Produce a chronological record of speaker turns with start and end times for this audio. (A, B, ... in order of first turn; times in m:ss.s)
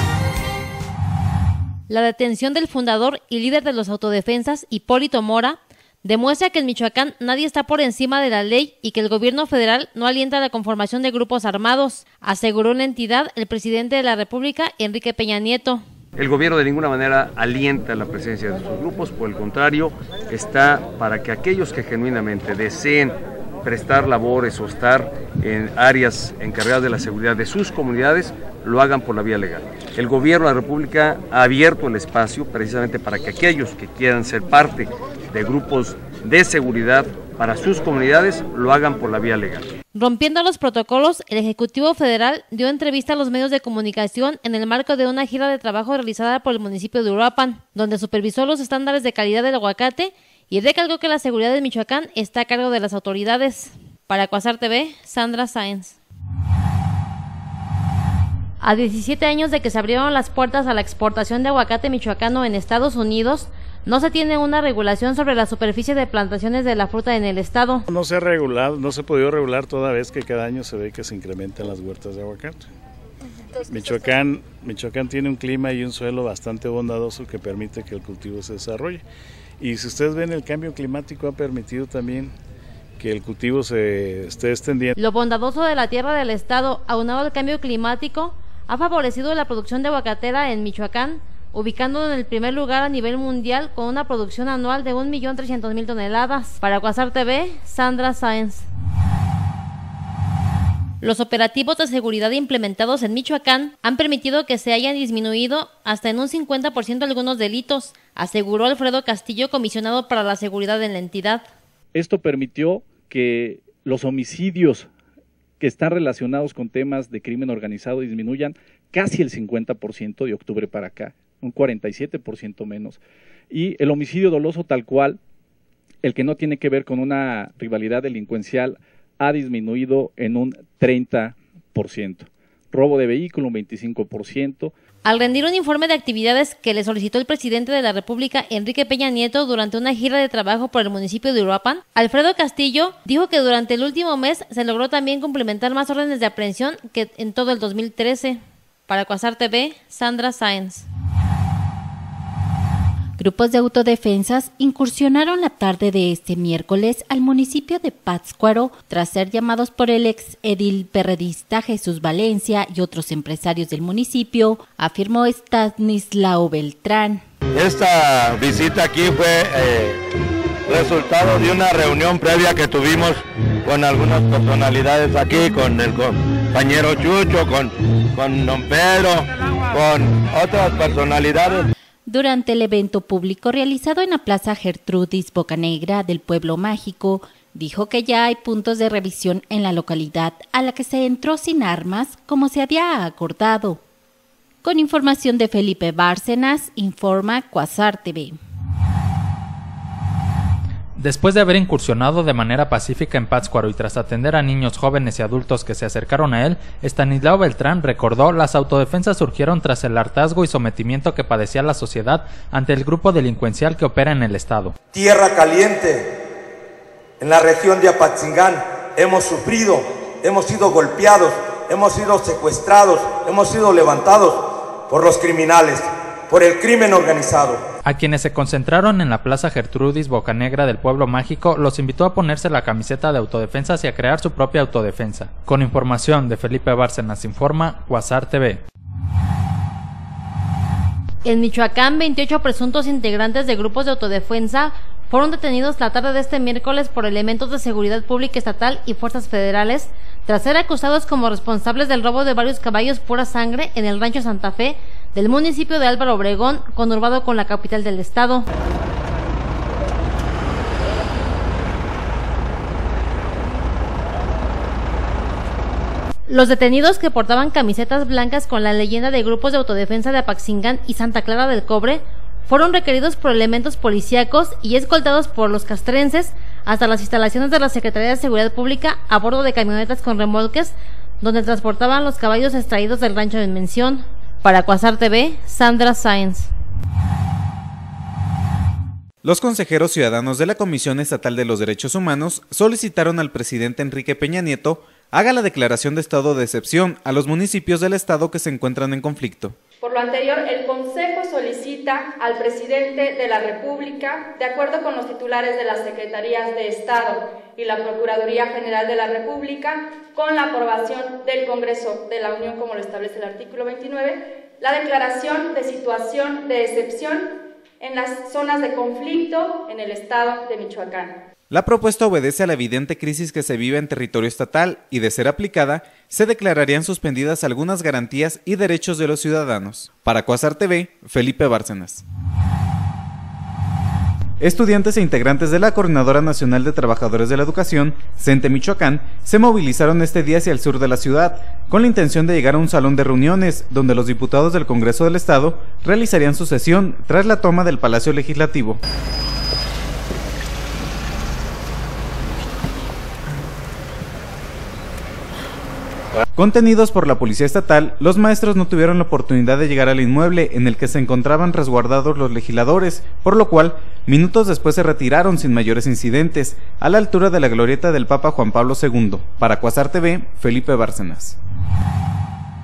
0:01.9-0:15.8 A
0:16.2-0:39.7 B
0:39.9-0:56.0 A
0:58.6-1:07.8 A
1:07.9-1:12.6 C
1:13.6-1:19.0 C
1:19.6-1:22.3 C
1:23.0-1:24.9 C
1:25.0-1:38.7 A
1:41.0-1:51.4 A
1:51.9-1:54.9 D
1:55.6-2:03.0 D
2:03.5-2:05.2 D
2:06.0-2:14.7 D
2:15.0-2:30.9 A
2:33.2-2:47.2 E
2:47.6-2:49.9 F
2:50.7-2:57.7 F
2:58.2-2:59.2 F
2:59.8-3:01.5 F
3:02.1-3:13.8 E
3:14.6-3:18.3 E
3:21.0-3:34.8 G
3:34.9-3:36.1 H
3:37.2-3:47.6 H
3:47.8-3:58.6 G
4:01.2-4:18.4 A
4:26.3-4:46.5 A
4:49.2-4:59.6 I
4:59.8-5:17.3 J
5:17.8-5:21.1 J
5:21.5-5:32.0 I
5:34.4-5:48.8 I
5:56.3-6:11.4 I